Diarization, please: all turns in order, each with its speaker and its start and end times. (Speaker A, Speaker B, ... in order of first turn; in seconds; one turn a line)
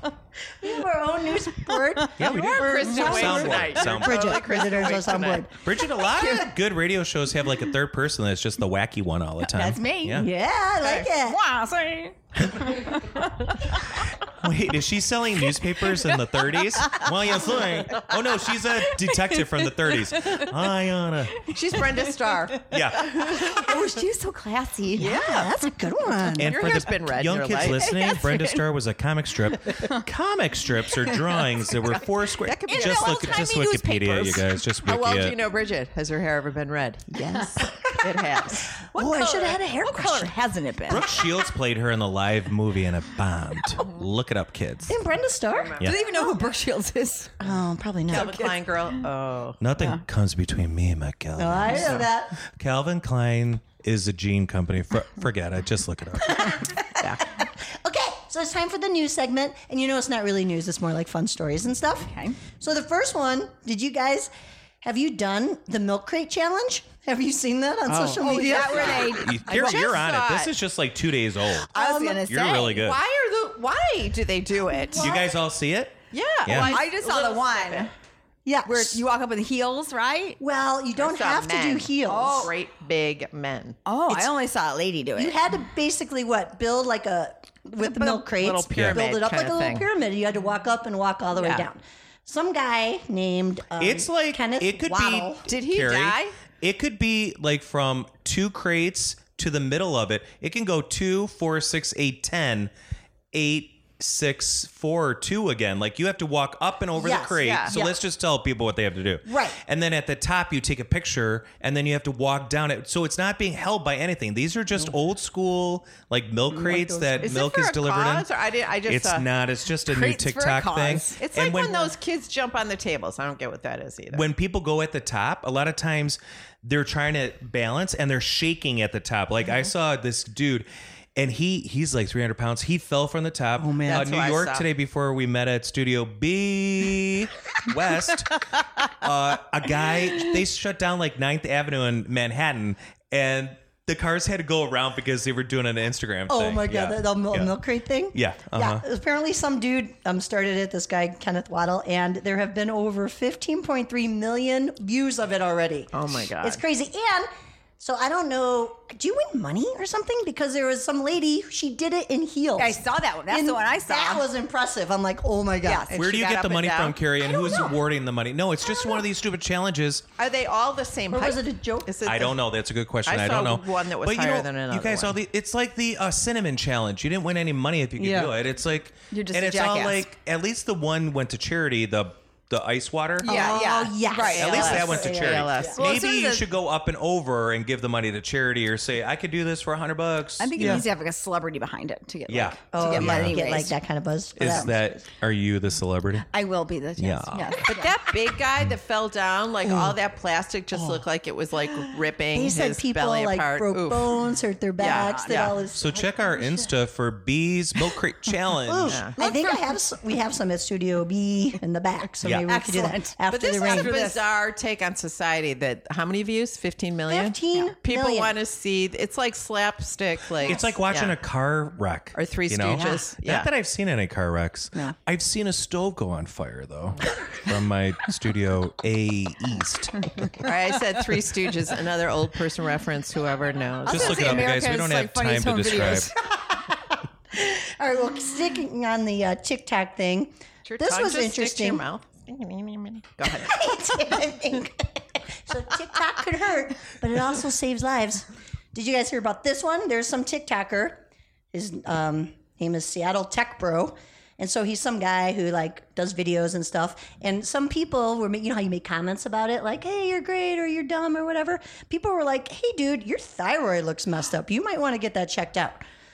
Speaker A: 0.6-5.6
Speaker B: 1.7-3.5
Speaker C: 2.2-4.4
Speaker D: 2.2-5.5
Speaker C: 5.6-10.3
Speaker B: 6.1-6.5
Speaker B: 9.4-10.3
Speaker A: 10.1-11.4
Speaker D: 10.8-11.1
Speaker B: 11.0-13.8
Speaker C: 13.9-21.5
Speaker B: 20.1-20.5
Speaker D: 21.4-23.8
Speaker B: 21.7-22.3
Speaker C: 22.7-23.2
Speaker B: 22.9-25.3
Speaker D: 25.0-25.5
Speaker A: 25.0-26.7
Speaker C: 26.4-35.4
Speaker D: 26.4-27.9
Speaker B: 27.6-28.6
Speaker D: 32.4-33.8
Speaker B: 32.7-34.5
Speaker D: 34.8-37.1
Speaker A: 37.1-40.4
Speaker B: 37.1-37.7
Speaker D: 38.0-39.3
Speaker B: 39.0-41.2
Speaker C: 40.9-45.0
Speaker A: 44.9-46.4
Speaker D: 45.5-46.4
Speaker B: 45.8-47.4
Speaker A: 47.4-48.5
Speaker D: 48.1-49.6
Speaker C: 49.6-56.7
Speaker A: 51.4-52.4
Speaker A: 56.3-64.3
Speaker B: 62.1-62.4
Speaker A: 64.8-69.2
Speaker D: 67.9-70.5
Speaker B: 68.2-70.4
Speaker C: 69.0-73.0
Speaker B: 71.7-72.8
Speaker A: 71.7-72.2
Speaker D: 72.8-75.1
Speaker A: 75.0-75.3
Speaker C: 75.0-76.8
Speaker D: 76.1-77.9
Speaker B: 76.5-77.9
Speaker A: 78.5-79.0
Speaker B: 78.7-80.4
Speaker A: 80.4-82.5
Speaker D: 81.0-83.8
Speaker B: 82.1-82.5
Speaker B: 83.9-85.4
Speaker A: 85.2-95.5
Speaker B: 87.8-88.2
Speaker D: 88.0-89.9
Speaker C: 88.7-89.0
Speaker D: 91.4-91.7
Speaker C: 93.8-102.7
Speaker D: 95.5-96.3
Speaker C: 103.3-118.3
Speaker A: 107.0-107.9
Speaker D: 107.4-107.8
Speaker A: 109.3-109.6
Speaker A: 116.5-117.4
Speaker D: 117.2-119.2
Speaker C: 118.9-121.9
Speaker B: 119.9-121.2
Speaker D: 121.2-124.3
Speaker C: 124.1-147.6
Speaker A: 133.6-134.1
Speaker D: 133.8-134.7
Speaker A: 146.3-165.9
Speaker C: 148.1-148.8
Speaker D: 155.9-156.6
Speaker B: 162.6-164.2
Speaker B: 165.6-166.1
Speaker D: 165.9-167.0
Speaker C: 165.9-170.1
Speaker A: 167.3-167.7
Speaker D: 170.2-172.4
Speaker A: 171.1-171.9
Speaker C: 172.0-183.4
Speaker D: 173.1-175.2
Speaker B: 179.1-180.1
Speaker B: 183.2-184.8
Speaker D: 183.2-185.8
Speaker A: 183.2-185.8
Speaker C: 184.3-190.9
Speaker B: 185.7-186.5
Speaker B: 190.4-193.8
Speaker A: 190.6-190.8
Speaker C: 192.3-193.4
Speaker A: 192.7-194.9
Speaker C: 194.4-196.3
Speaker B: 196.3-198.0
Speaker C: 197.0-197.6
Speaker D: 197.7-205.6
Speaker A: 202.3-206.4
Speaker B: 204.8-205.6
Speaker C: 205.7-209.0
Speaker A: 208.6-214.0
Speaker D: 208.9-209.2
Speaker B: 209.2-209.6
Speaker C: 212.2-212.5
Speaker B: 212.4-214.2
Speaker D: 213.3-221.2
Speaker A: 217.1-218.3
Speaker C: 220.4-230.5
Speaker D: 222.2-223.5
Speaker D: 230.4-234.5
Speaker B: 233.9-236.2
Speaker C: 233.9-236.2
Speaker A: 236.5-241.8
Speaker D: 240.7-243.6
Speaker A: 243.3-265.8